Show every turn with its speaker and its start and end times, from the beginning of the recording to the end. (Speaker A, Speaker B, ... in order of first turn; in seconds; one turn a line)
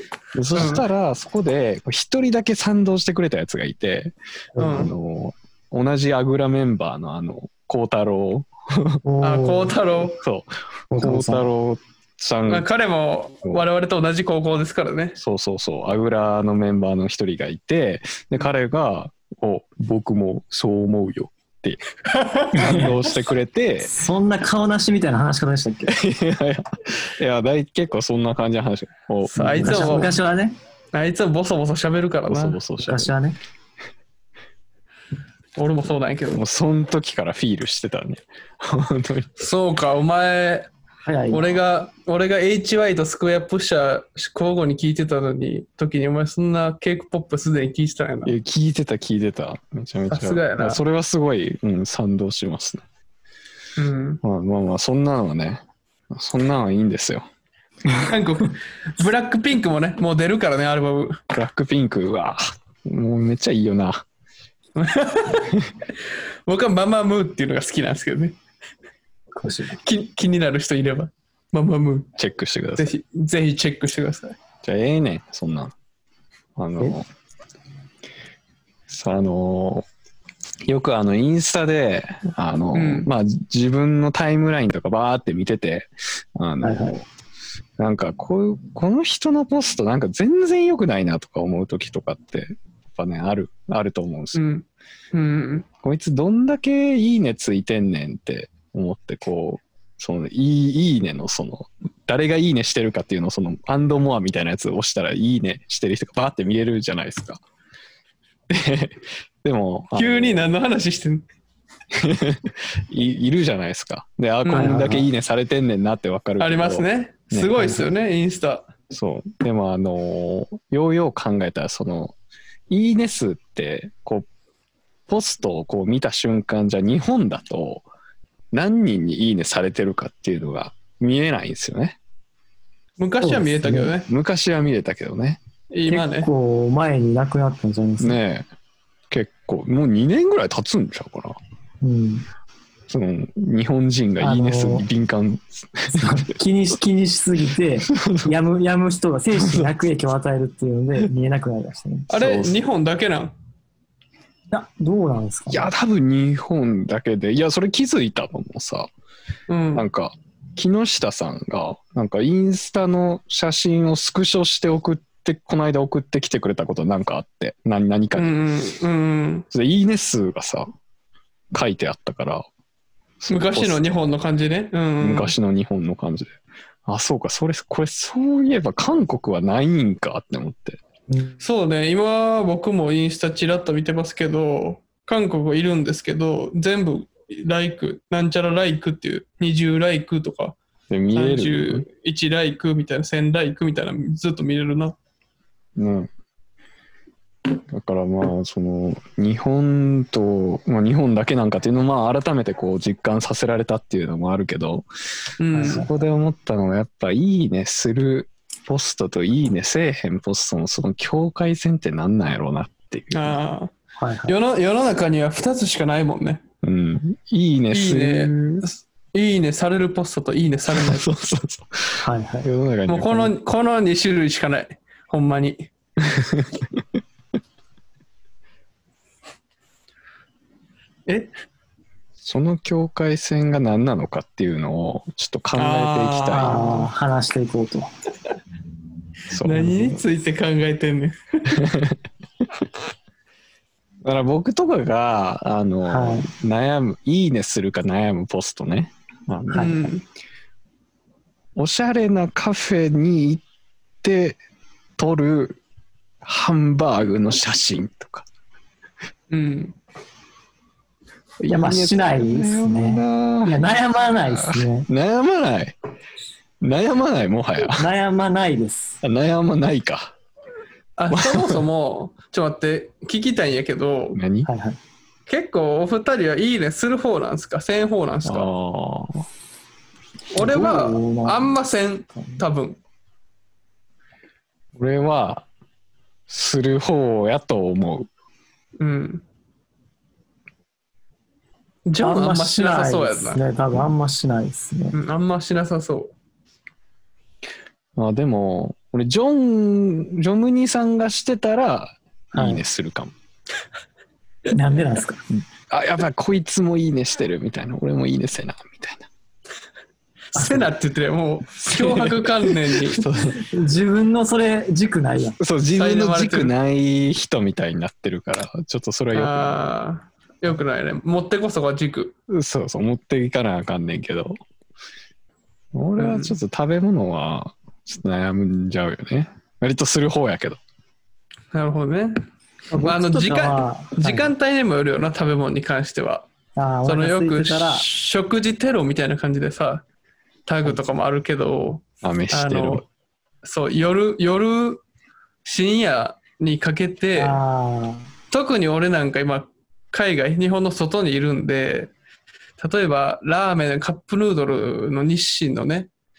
Speaker A: 0.3-9.0
Speaker B: 0.5-0.9
Speaker C: 4.6-4.9
Speaker B: 4.6-4.9
Speaker C: 9.0-9.8
Speaker B: 9.2-10.2
Speaker A: 10.2-12.7
Speaker C: 10.9-11.5
Speaker B: 12.5-15.2
Speaker A: 15.2-21.8
Speaker B: 22.1-22.9
Speaker C: 22.5-23.0
Speaker A: 22.5-23.9
Speaker C: 23.8-26.0
Speaker A: 25.9-30.1
Speaker B: 29.3-30.1
Speaker C: 29.4-30.6
Speaker B: 30.9-32.6
Speaker A: 32.3-33.1
Speaker C: 32.8-33.4
Speaker B: 35.6-36.4
Speaker A: 36.3-39.5
Speaker B: 39.4-40.7
Speaker C: 41.0-41.6
Speaker B: 41.3-48.4
Speaker A: 48.2-52.8
Speaker B: 50.1-50.8
Speaker B: 53.8-54.2
Speaker A: 54.2-57.3
Speaker B: 57.9-61.2
Speaker A: 61.3-64.0
Speaker B: 64.8-65.5
Speaker B: 66.5-68.3
Speaker C: 69.3-69.8
Speaker B: 69.8-72.1
Speaker A: 72.2-72.9
Speaker B: 72.8-74.4
Speaker A: 74.6-75.7
Speaker A: 76.6-77.0
Speaker A: 78.9-79.9
Speaker A: 80.7-87.0
Speaker B: 82.7-83.1
Speaker C: 86.6-87.0
Speaker A: 87.8-94.4
Speaker B: 94.3-95.7
Speaker A: 95.8-107.4
Speaker A: 108.5-110.5
Speaker B: 109.9-111.2
Speaker A: 111.9-117.8
Speaker B: 114.4-114.9
Speaker C: 114.5-115.1
Speaker B: 116.4-118.7
Speaker C: 117.6-117.9
Speaker A: 118.9-122.2
Speaker A: 122.7-124.3
Speaker A: 125.1-127.9
Speaker A: 128.5-132.0
Speaker B: 133.0-134.1
Speaker C: 133.2-133.9
Speaker A: 134.1-135.4
Speaker B: 135.7-136.3
Speaker C: 135.9-138.2
Speaker A: 138.0-138.5
Speaker A: 139.1-141.4
Speaker C: 141.8-142.3
Speaker A: 142.9-146.2
Speaker C: 144.2-144.9
Speaker C: 145.9-152.1
Speaker A: 147.9-148.3
Speaker A: 149.4-149.7
Speaker B: 152.1-153.3
Speaker A: 152.1-152.6
Speaker C: 154.5-155.7
Speaker A: 155.5-158.9
Speaker B: 159.5-159.9
Speaker A: 159.8-168.4
Speaker B: 168.2-169.5
Speaker A: 169.5-170.7
Speaker A: 171.5-172.4
Speaker A: 173.2-174.1
Speaker B: 173.3-175.3
Speaker A: 175.0-180.8
Speaker B: 181.4-190.6
Speaker A: 190.9-191.9
Speaker B: 191.2-194.9
Speaker A: 195.8-196.1
Speaker A: 197.7-204.9
Speaker B: 205.4-205.8
Speaker C: 205.5-205.9
Speaker A: 205.6-213.4
Speaker B: 213.1-213.7
Speaker C: 214.0-214.4
Speaker B: 214.3-216.4
Speaker A: 216.6-218.7
Speaker B: 217.7-221.1
Speaker A: 220.7-223.3
Speaker C: 222.0-222.5
Speaker B: 222.9-225.7
Speaker A: 226.0-226.8
Speaker B: 231.1-231.3
Speaker A: 232.2-236.8
Speaker B: 235.6-236.9
Speaker C: 236.3-237.9
Speaker A: 239.3-240.0
Speaker B: 239.4-241.6
Speaker A: 241.5-242.0
Speaker A: 244.0-249.8
Speaker C: 245.9-246.3
Speaker C: 249.5-249.9
Speaker B: 249.5-250.0
Speaker A: 251.6-253.4
Speaker A: 254.0-254.4
Speaker A: 255.0-255.6
Speaker A: 256.2-258.3
Speaker B: 259.3-259.8
Speaker A: 261.4-265.8
Speaker C: 261.5-264.9
Speaker A: 266.6-267.9
Speaker C: 267.7-269.0
Speaker A: 269.0-270.1
Speaker B: 271.0-274.2
Speaker A: 271.1-271.7
Speaker A: 274.1-274.5
Speaker C: 274.4-274.8
Speaker B: 275.3-278.5
Speaker A: 278.2-279.3
Speaker B: 280.4-282.8
Speaker C: 280.4-281.6
Speaker C: 282.1-282.4
Speaker A: 284.8-285.5
Speaker A: 286.3-288.1
Speaker B: 288.8-289.2
Speaker B: 291.9-293.4
Speaker C: 292.0-295.0
Speaker B: 294.9-296.1
Speaker A: 298.0-303.1
Speaker C: 302.3-302.6
Speaker C: 304.5-305.2
Speaker A: 305.7-309.1
Speaker C: 310.4-310.7
Speaker B: 310.4-313.1
Speaker A: 311.6-313.4
Speaker C: 313.3-315.4
Speaker A: 315.4-319.5
Speaker B: 315.7-316.5
Speaker B: 319.1-322.1
Speaker A: 322.3-324.4
Speaker A: 325.7-330.6
Speaker B: 326.0-326.4
Speaker B: 331.5-332.2
Speaker C: 332.7-334.3
Speaker B: 332.8-336.3
Speaker C: 336.6-337.9
Speaker B: 336.9-339.8
Speaker B: 340.5-342.8
Speaker A: 342.0-342.8
Speaker B: 343.4-344.8
Speaker B: 345.4-347.4
Speaker C: 347.1-348.1
Speaker B: 348.3-351.9
Speaker B: 352.6-355.9